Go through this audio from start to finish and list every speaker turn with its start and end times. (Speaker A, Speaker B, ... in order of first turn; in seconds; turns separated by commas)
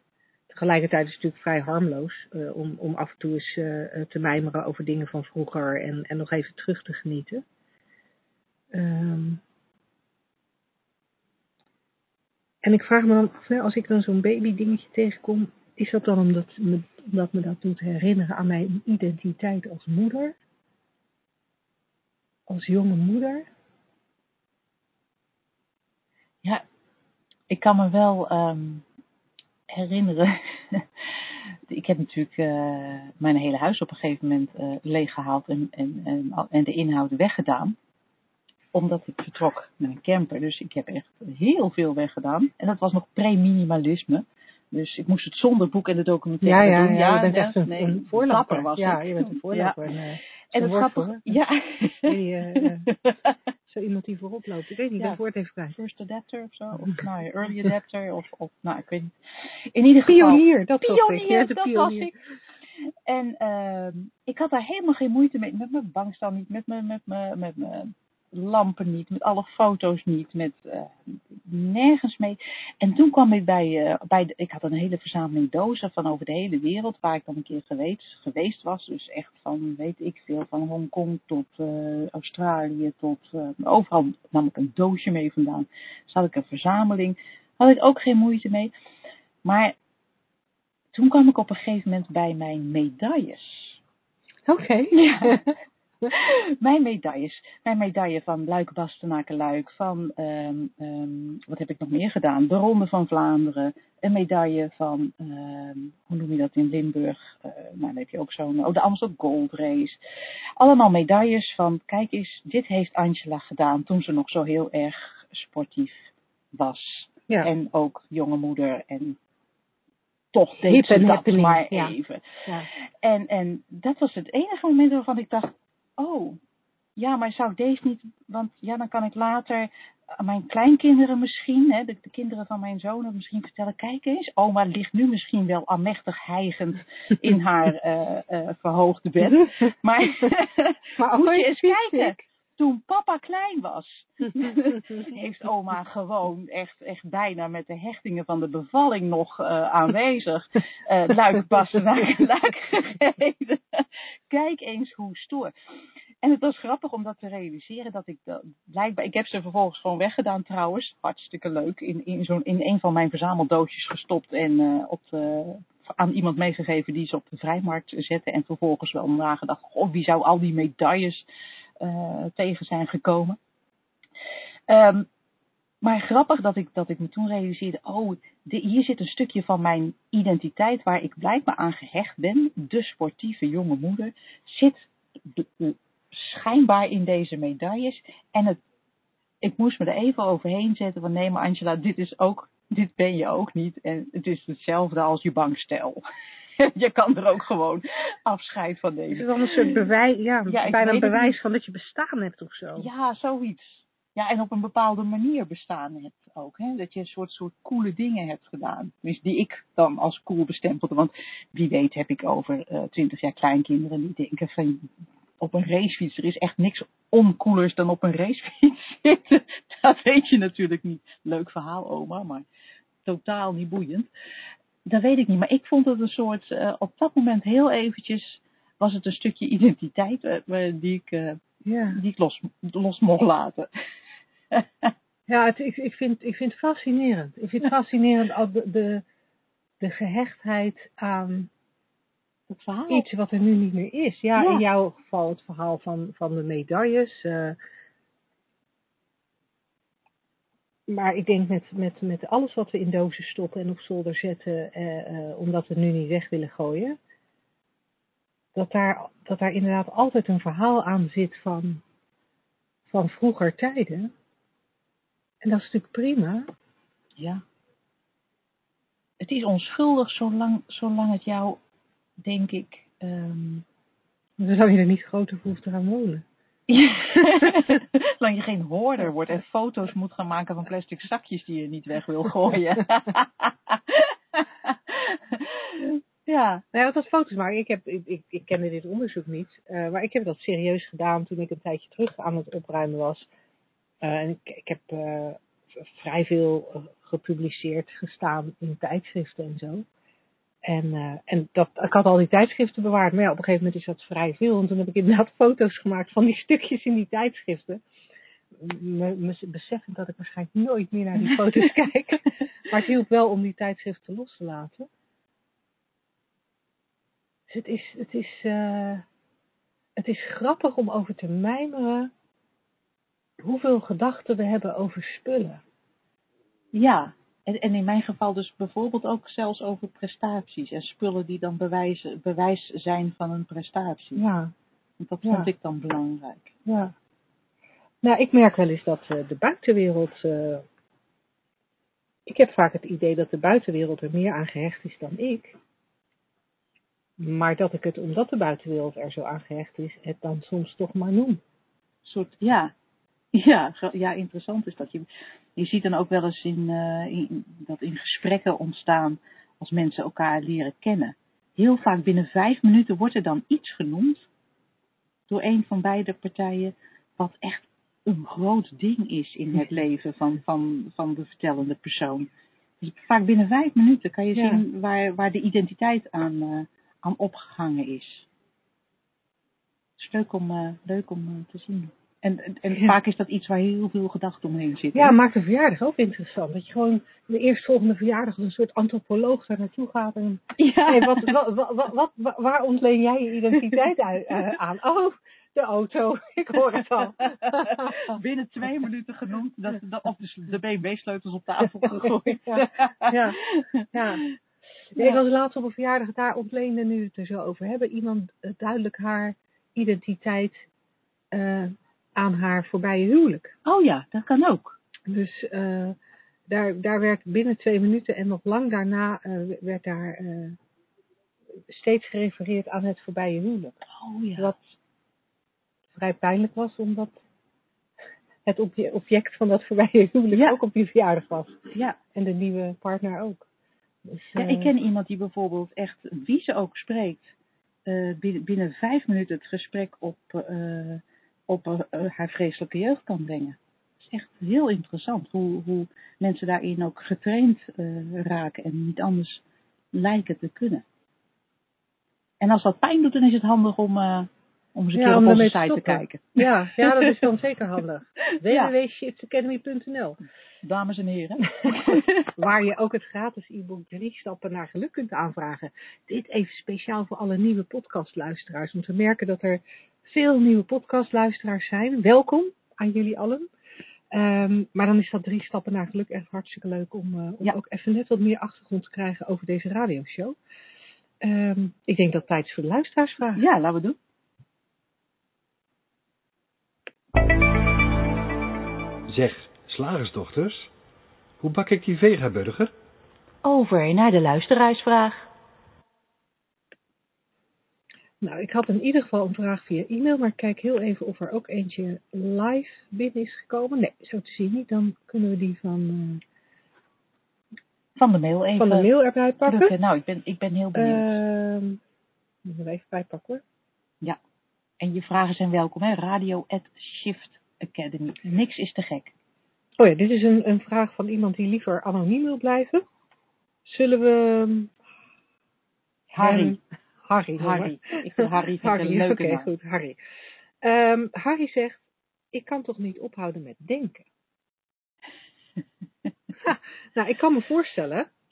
Speaker A: 0.5-7.4, Speaker A: 8.7-9.4, Speaker A: 12.6-20.4, Speaker A: 22.5-23.5, Speaker B: 27.5-28.9, Speaker B: 29.7-30.9, Speaker B: 31.7-37.8, Speaker B: 38.7-49.8, Speaker A: 46.4-51.4, Speaker B: 50.5-53.4, Speaker A: 52.1-52.9, Speaker A: 53.7-55.8, Speaker B: 55.7-59.1, Speaker B: 59.7-62.1, Speaker A: 60.1-62.1, Speaker B: 63.1-88.7, Speaker B: 89.4-89.7, Speaker B: 90.9-93.8, Speaker A: 94.5-95.5, Speaker B: 94.9-95.4, Speaker B: 96.1-110.0, Speaker B: 110.6-116.0, Speaker B: 116.5-119.2, Speaker B: 120.3-126.4, Speaker A: 120.6-121.9, Speaker B: 127.0-155.5, Speaker A: 140.9-142.2, Speaker B: 156.2-171.2, Speaker B: 171.8-173.4, Speaker B: 174.7-175.1, Speaker B: 175.8-188.6, Speaker B: 189.4-196.0, Speaker B: 196.6-199.8, Speaker A: 199.1-202.9, Speaker B: 200.5-201.4, Speaker B: 202.8-214.9, Speaker B: 215.4-222.4, Speaker B: 223.1-224.1, Speaker B: 224.9-231.4, Speaker A: 231.6-232.0, Speaker B: 231.9-233.7, Speaker B: 234.5-234.9, Speaker A: 235.3-239.0, Speaker A: 239.8-241.5, Speaker B: 242.5-243.1, Speaker A: 242.9-247.6, Speaker B: 244.4-244.6, Speaker A: 250.9-257.0, Speaker A: 258.6-261.8, Speaker A: 262.9-264.1, Speaker A: 265.4-266.5, Speaker B: 267.2-267.4, Speaker B: 269.2-271.6, Speaker B: 272.2-273.6, Speaker A: 274.4-276.2, Speaker B: 276.7-286.6, Speaker A: 277.3-277.6, Speaker A: 286.7-293.3, Speaker A: 294.0-299.9, Speaker A: 300.7-307.8, Speaker A: 308.6-314.9, Speaker A: 317.5-319.1, Speaker A: 320.0-322.1, Speaker A: 323.4-325.6, Speaker B: 326.7-334.2, Speaker A: 334.1-334.5, Speaker B: 335.0-336.5, Speaker A: 335.2-335.5, Speaker A: 336.6-336.9, Speaker A: 338.0-340.6, Speaker A: 342.3-345.6, Speaker A: 347.2-351.4, Speaker B: 352.0-352.7, Speaker B: 353.3-364.3, Speaker B: 365.3-372.3, Speaker B: 372.8-378.3, Speaker A: 374.3-374.6, Speaker B: 380.0-385.1, Speaker A: 382.7-382.9, Speaker A: 384.9-398.2, Speaker B: 390.6-391.3, Speaker B: 397.2-404.3, Speaker A: 402.0-403.4, Speaker A: 403.9-404.2, Speaker A: 404.9-410.6, Speaker A: 411.3-413.6, Speaker B: 413.6-414.8, Speaker A: 415.1-416.0, Speaker A: 416.5-420.6, Speaker A: 421.7-423.8, Speaker B: 423.9-424.5, Speaker A: 424.4-424.7, Speaker A: 426.0-427.2, Speaker A: 428.4-431.6, Speaker B: 430.3-430.6, Speaker A: 432.1-433.5, Speaker A: 434.1-434.7, Speaker B: 434.4-437.3, Speaker B: 437.9-450.9, Speaker B: 452.4-457.2, Speaker A: 454.9-460.2, Speaker B: 458.4-458.7, Speaker B: 460.6-462.3, Speaker A: 461.8-473.5, Speaker A: 474.1-480.4, Speaker A: 481.2-483.4, Speaker B: 483.4-484.0, Speaker C: 489.1-490.7, Speaker C: 491.4-492.7, Speaker B: 493.4-495.3, Speaker A: 498.2-506.2, Speaker B: 508.0-508.9, Speaker A: 508.6-509.7, Speaker B: 509.5-511.2, Speaker A: 510.7-511.8, Speaker A: 512.4-513.4, Speaker B: 514.8-519.1, Speaker A: 519.8-522.9, Speaker A: 523.6-524.7, Speaker B: 526.1-526.6, Speaker A: 526.2-530.0, Speaker B: 527.4-529.5, Speaker A: 530.6-534.1, Speaker A: 536.4-538.1